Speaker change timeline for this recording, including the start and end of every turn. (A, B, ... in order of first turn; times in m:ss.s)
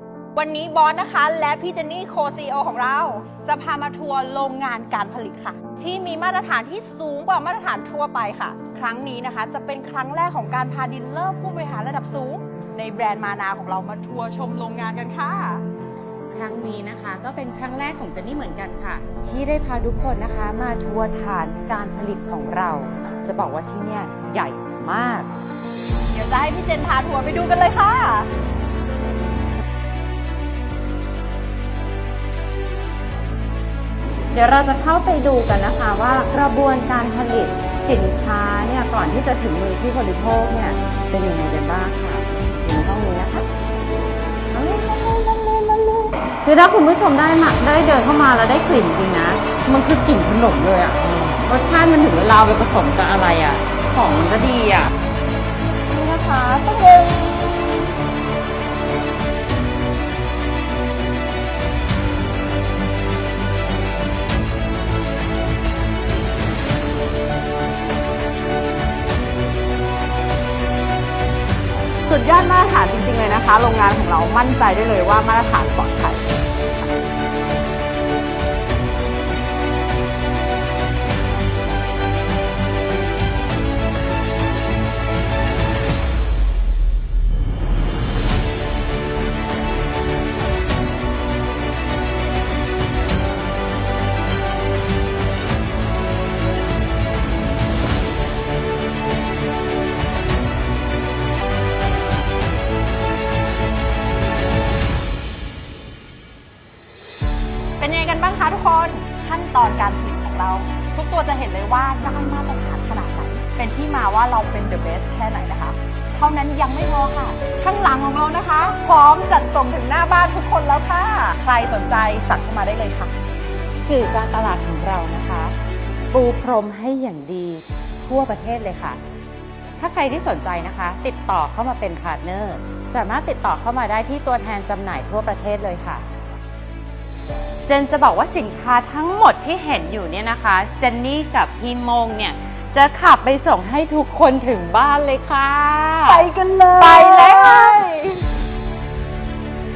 0:00.3-0:15.6 A
0:16.3-0:25.3 B
0:26.1-0:28.3 A
0:34.3-0:43.5 B
0:44.5-0:54.9 B
0:55.9-0:57.5 B
1:12.0-1:16.3 A
1:47.8-2:03.1 A
2:03.8-2:05.5 B
2:06.1-2:09.0 B
2:09.8-2:16.0 B
2:17.7-2:27.9 B
2:26.1-2:28.2 A